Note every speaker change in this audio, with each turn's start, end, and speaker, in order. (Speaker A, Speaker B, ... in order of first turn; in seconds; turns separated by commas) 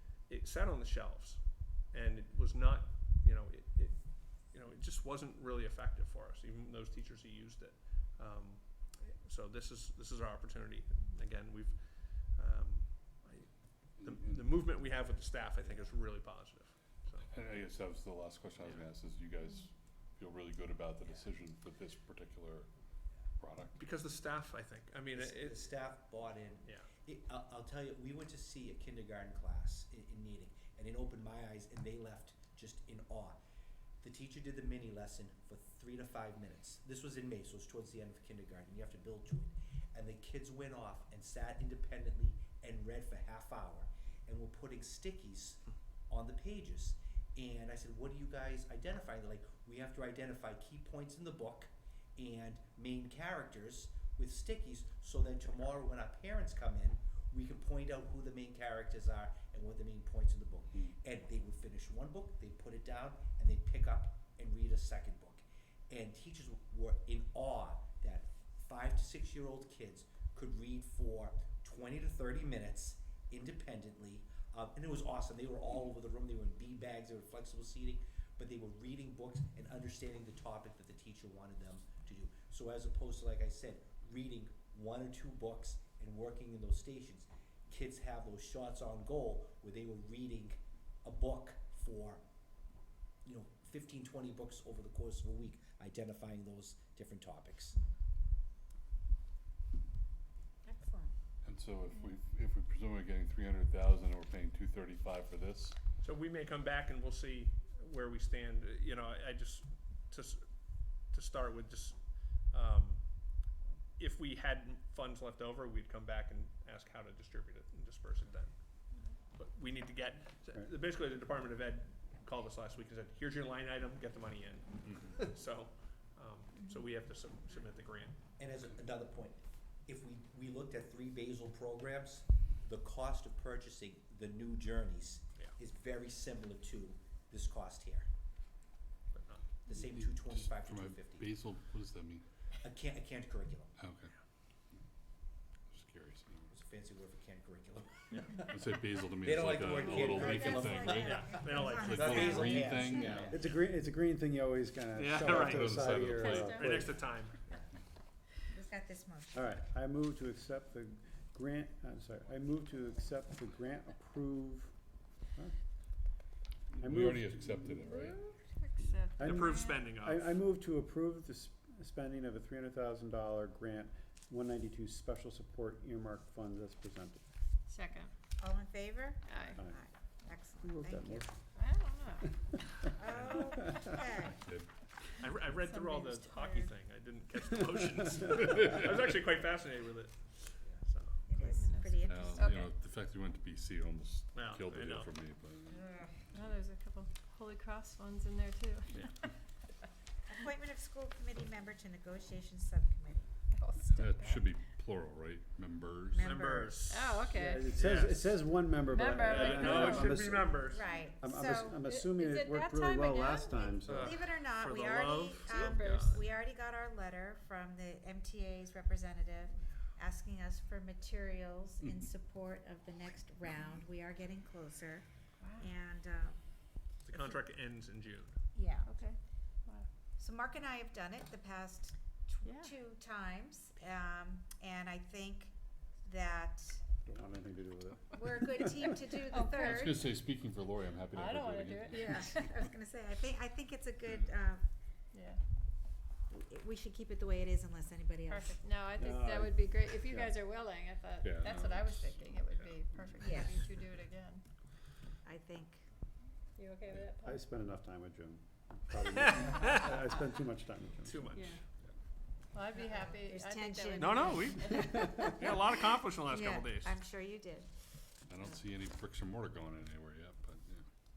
Speaker A: 0.3-17.3, Speaker B: 17.3-22.7, Speaker B: 23.4-23.8, Speaker A: 23.8-25.8, Speaker C: 25.1-33.4, Speaker C: 34.0-92.2, Speaker C: 93.2-97.8, Speaker D: 100.6-101.1, Speaker B: 101.4-105.8, Speaker A: 106.0-110.4, Speaker A: 111.0-113.3, Speaker A: 114.0-118.5, Speaker A: 119.3-128.2, Speaker C: 128.4-138.1, Speaker A: 139.1-139.5, Speaker C: 139.7-141.3, Speaker B: 139.7-142.2, Speaker C: 142.6-143.7, Speaker B: 143.8-144.1, Speaker B: 145.7-146.5, Speaker C: 146.5-148.6, Speaker B: 148.5-153.3, Speaker C: 149.2-153.5, Speaker D: 149.7-153.4, Speaker A: 151.1-152.5, Speaker E: 153.3-156.9, Speaker A: 154.9-156.0, Speaker B: 155.3-156.7, Speaker F: 156.1-156.8, Speaker A: 156.6-157.3, Speaker D: 158.5-159.4, Speaker E: 159.3-164.7, Speaker B: 166.7-168.2, Speaker E: 166.8-168.0, Speaker F: 167.8-169.8, Speaker E: 169.2-177.2, Speaker A: 169.2-170.3, Speaker F: 177.7-178.1, Speaker D: 178.4-181.3, Speaker F: 179.2-179.6, Speaker E: 179.6-179.8, Speaker E: 180.6-181.4, Speaker F: 181.5-182.4, Speaker D: 182.8-184.4, Speaker A: 183.1-183.7, Speaker B: 184.2-184.7, Speaker A: 185.2-191.7, Speaker F: 185.6-186.7, Speaker B: 188.3-189.2, Speaker D: 191.3-192.6, Speaker F: 191.5-192.7, Speaker B: 192.0-195.9, Speaker A: 194.3-195.1, Speaker D: 195.7-196.2, Speaker F: 196.3-199.2, Speaker D: 200.3-203.3, Speaker F: 203.5-204.6, Speaker B: 203.9-206.3, Speaker D: 206.1-206.9, Speaker A: 206.2-208.6, Speaker F: 206.8-207.8, Speaker E: 207.3-210.6, Speaker F: 208.8-210.2, Speaker A: 209.1-211.1, Speaker D: 210.6-211.8, Speaker E: 211.2-214.2, Speaker F: 211.8-214.0, Speaker D: 213.7-225.1, Speaker A: 213.9-216.2, Speaker F: 215.5-216.2, Speaker F: 225.4-225.7, Speaker D: 225.6-226.4, Speaker A: 227.0-228.3, Speaker D: 228.5-228.9, Speaker F: 228.8-229.9, Speaker D: 230.2-236.8, Speaker F: 232.4-232.7, Speaker E: 237.0-239.0, Speaker D: 238.2-240.1, Speaker F: 239.2-239.9, Speaker B: 239.6-242.5, Speaker F: 241.1-242.6, Speaker D: 241.9-244.6, Speaker F: 245.1-245.4, Speaker D: 246.3-248.6, Speaker F: 248.3-254.4, Speaker E: 249.0-250.4, Speaker B: 251.2-252.2, Speaker B: 253.1-253.5, Speaker D: 253.2-253.6, Speaker D: 255.2-255.8, Speaker F: 256.6-257.4, Speaker E: 256.9-261.2, Speaker A: 259.2-259.9, Speaker A: 261.1-261.5, Speaker F: 262.5-265.2, Speaker D: 262.8-265.6, Speaker A: 264.0-267.0, Speaker D: 266.2-267.7, Speaker B: 268.3-270.8